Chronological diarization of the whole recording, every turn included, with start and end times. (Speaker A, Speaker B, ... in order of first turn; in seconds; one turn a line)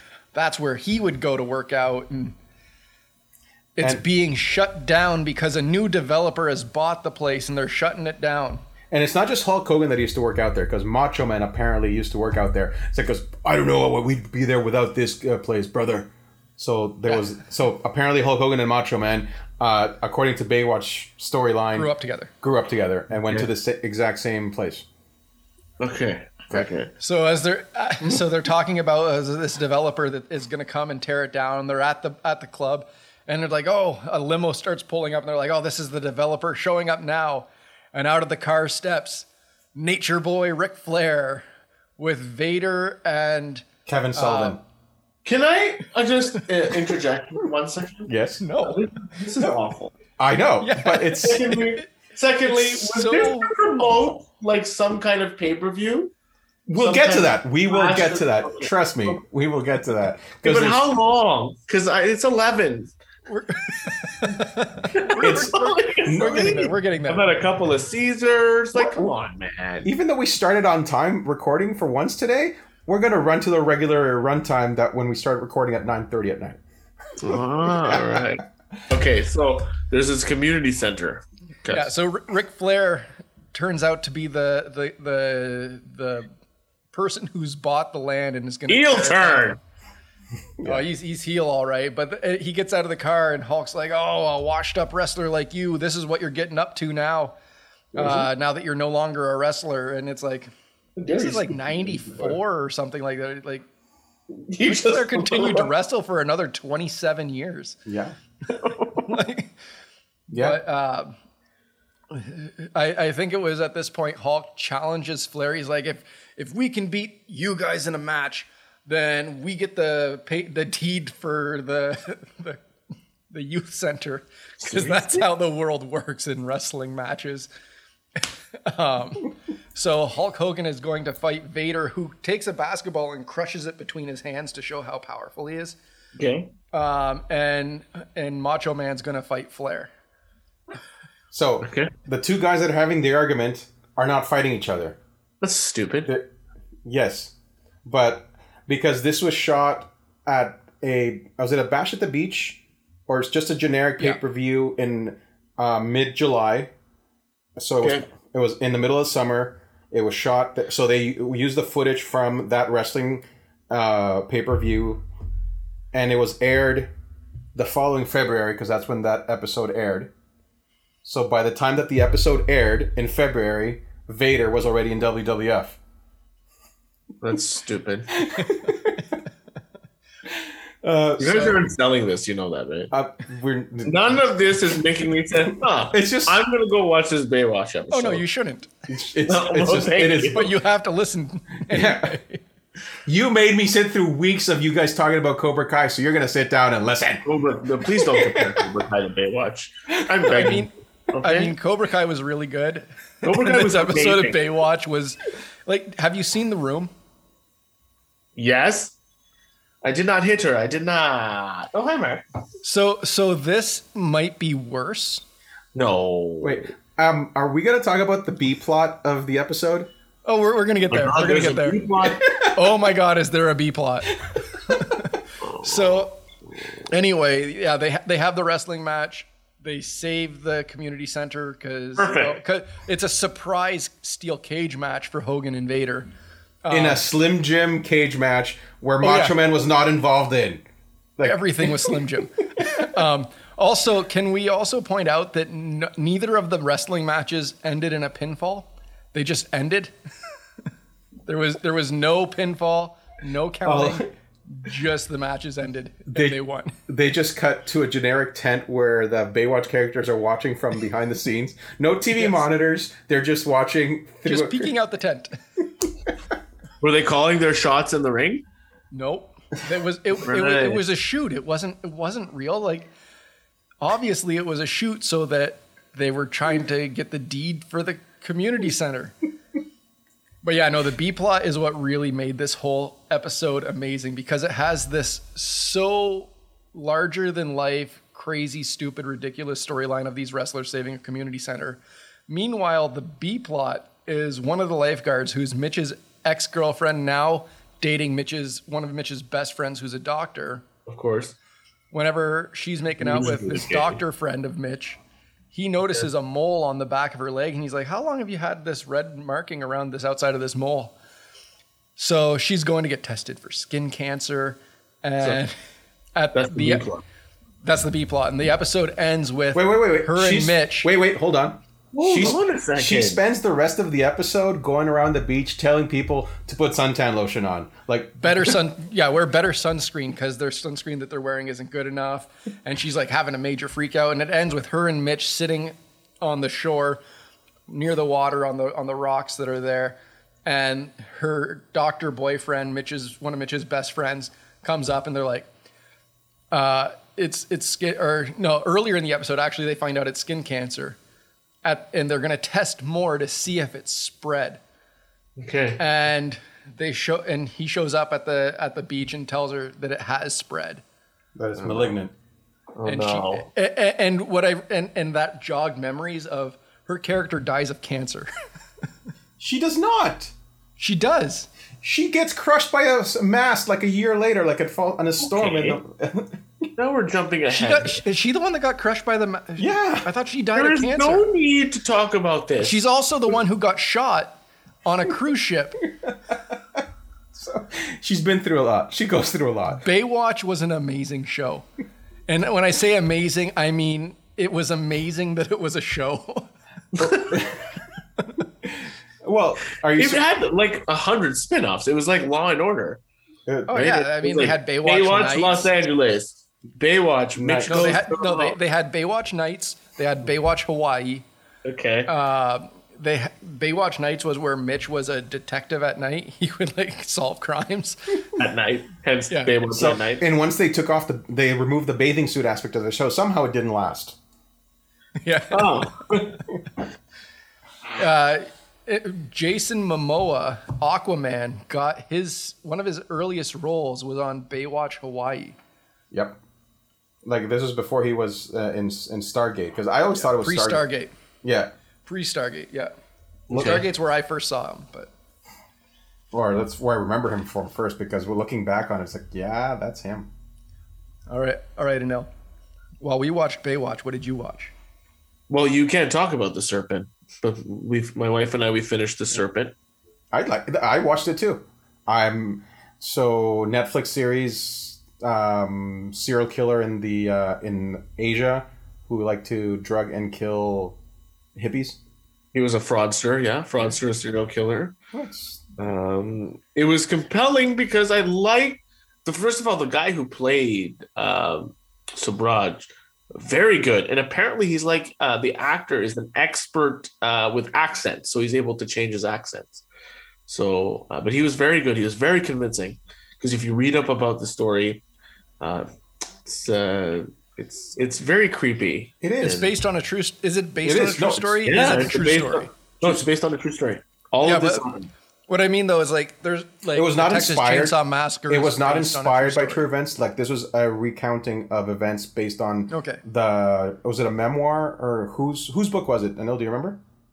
Speaker A: 0.3-2.4
Speaker A: 3.8-8.6
Speaker B: 8.9-24.9
Speaker A: 21.7-22.3
Speaker C: 25.8-26.9
Speaker A: 27.0-41.4
Speaker A: 42.0-44.6
Speaker B: 43.9-44.6
Speaker C: 45.2-49.9
Speaker B: 48.1-48.4
Speaker A: 48.4-48.8
Speaker B: 50.2-51.5
Speaker A: 50.6-51.8
Speaker C: 51.2-56.1
Speaker A: 52.4-53.5
Speaker B: 56.7-60.8
Speaker C: 56.8-59.2
Speaker C: 60.4-62.9
Speaker A: 63.3-67.3
Speaker C: 64.9-69.9
Speaker B: 65.2-66.7
Speaker B: 69.8-76.6
Speaker C: 77.2-81.9
Speaker B: 77.3-78.3
Speaker A: 81.7-86.3
Speaker A: 86.9-89.6
Speaker C: 88.7-89.6
Speaker B: 90.6-90.8
Speaker A: 90.6-97.3
Speaker A: 98.0-100.5
Speaker C: 98.0-98.3
Speaker C: 101.0-102.3
Speaker A: 101.1-103.6
Speaker C: 104.4-105.7
Speaker A: 104.6-107.8
Speaker B: 107.8-108.1
Speaker C: 108.5-109.0
Speaker A: 109.0-109.5
Speaker B: 110.3-110.6
Speaker A: 110.3-111.1
Speaker A: 112.1-122.6
Speaker A: 123.3-127.5
Speaker C: 124.6-125.2
Speaker A: 128.2-135.8
Speaker C: 136.2-136.5
Speaker A: 136.7-139.9
Speaker B: 141.3-145.0
Speaker C: 141.6-141.9
Speaker C: 145.4-146.1
Speaker B: 146.0-146.3
Speaker B: 146.8-147.3
Speaker B: 147.8-156.7
Speaker B: 157.6-165.0
Speaker B: 165.9-166.9
Speaker B: 167.5-170.1
Speaker B: 171.0-175.8
Speaker C: 177.2-178.2
Speaker B: 178.1-179.1
Speaker B: 180.8-181.7
Speaker C: 181.2-182.9
Speaker B: 182.9-184.4
Speaker C: 183.8-188.2
Speaker B: 185.9-186.4
Speaker A: 187.9-188.7
Speaker B: 188.9-190.5
Speaker C: 189.2-190.5
Speaker A: 190.3-192.4
Speaker B: 191.7-192.2
Speaker B: 193.0-198.7
Speaker C: 197.2-201.5
Speaker A: 200.3-200.7
Speaker A: 201.2-206.9
Speaker C: 203.2-204.5
Speaker C: 208.3-208.9
Speaker C: 209.8-212.2
Speaker A: 212.6-215.2
Speaker C: 215.7-216.6
Speaker B: 216.4-219.9
Speaker A: 220.2-221.9
Speaker C: 220.9-222.3
Speaker B: 222.1-222.5
Speaker A: 222.4-226.2
Speaker C: 225.5-226.0
Speaker A: 226.9-236.1
Speaker C: 232.0-232.4
Speaker A: 236.6-237.0
Speaker B: 236.7-240.6
Speaker A: 239.0-239.4
Speaker B: 241.2-242.0
Speaker A: 241.2-249.9
Speaker A: 251.3-256.8
Speaker B: 253.7-254.0
Speaker B: 256.1-264.7
Speaker A: 262.1-262.4
Speaker A: 264.2-265.4
Speaker C: 266.8-268.4
Speaker A: 268.9-272.9
Speaker C: 270.2-270.8
Speaker A: 273.8-279.2
Speaker A: 280.4-300.6
Speaker C: 300.9-301.4
Speaker A: 301.9-305.0
Speaker C: 303.0-304.0
Speaker A: 305.5-310.9
Speaker A: 312.0-315.5
Speaker A: 316.1-316.9
Speaker C: 316.3-317.0
Speaker A: 317.6-320.9
Speaker B: 319.5-328.6
Speaker C: 321.9-323.2
Speaker A: 328.2-337.0
Speaker A: 337.7-345.5
Speaker A: 346.5-351.0
Speaker A: 351.6-354.6
Speaker C: 355.4-355.8
Speaker A: 355.8-360.8
Speaker B: 361.4-362.1
Speaker C: 361.6-361.9
Speaker C: 362.8-363.5
Speaker A: 362.8-368.3
Speaker B: 369.4-370.3
Speaker A: 370.8-371.5
Speaker B: 371.8-376.7
Speaker C: 375.2-375.8
Speaker C: 376.8-378.0
Speaker A: 377.5-381.3
Speaker B: 379.6-380.1
Speaker C: 380.6-382.8
Speaker A: 382.6-385.8
Speaker B: 387.3-389.8
Speaker A: 389.8-391.6
Speaker A: 392.3-396.5
Speaker C: 396.9-397.4
Speaker B: 397.0-397.7
Speaker B: 398.6-400.2
Speaker C: 399.9-403.0
Speaker B: 403.5-403.9
Speaker A: 403.7-405.7
Speaker C: 403.7-408.6
Speaker B: 407.4-408.0
Speaker A: 407.7-411.2
Speaker C: 411.6-412.1
Speaker A: 412.1-418.3
Speaker C: 418.4-420.3
Speaker B: 419.7-424.2
Speaker A: 425.2-425.8
Speaker C: 425.5-426.4
Speaker A: 428.0-435.6
Speaker B: 436.1-436.4
Speaker B: 437.2-440.9
Speaker A: 440.2-441.1
Speaker B: 441.4-441.7
Speaker A: 442.0-442.9
Speaker C: 443.5-443.8
Speaker A: 443.5-445.1
Speaker B: 443.5-443.8
Speaker B: 446.3-450.3
Speaker A: 451.3-452.3
Speaker A: 453.0-454.7
Speaker C: 455.5-459.7
Speaker B: 460.3-471.0
Speaker B: 471.6-472.0
Speaker C: 472.5-474.9
Speaker B: 475.1-475.6
Speaker C: 475.8-489.9
Speaker C: 490.5-495.0
Speaker C: 495.6-495.9
Speaker C: 496.4-499.7
Speaker B: 499.2-499.6
Speaker A: 499.4-502.7
Speaker B: 500.8-502.1
Speaker C: 501.6-505.1
Speaker A: 504.4-504.9
Speaker A: 505.5-509.8
Speaker B: 506.9-508.0
Speaker B: 508.5-517.0
Speaker A: 512.9-513.2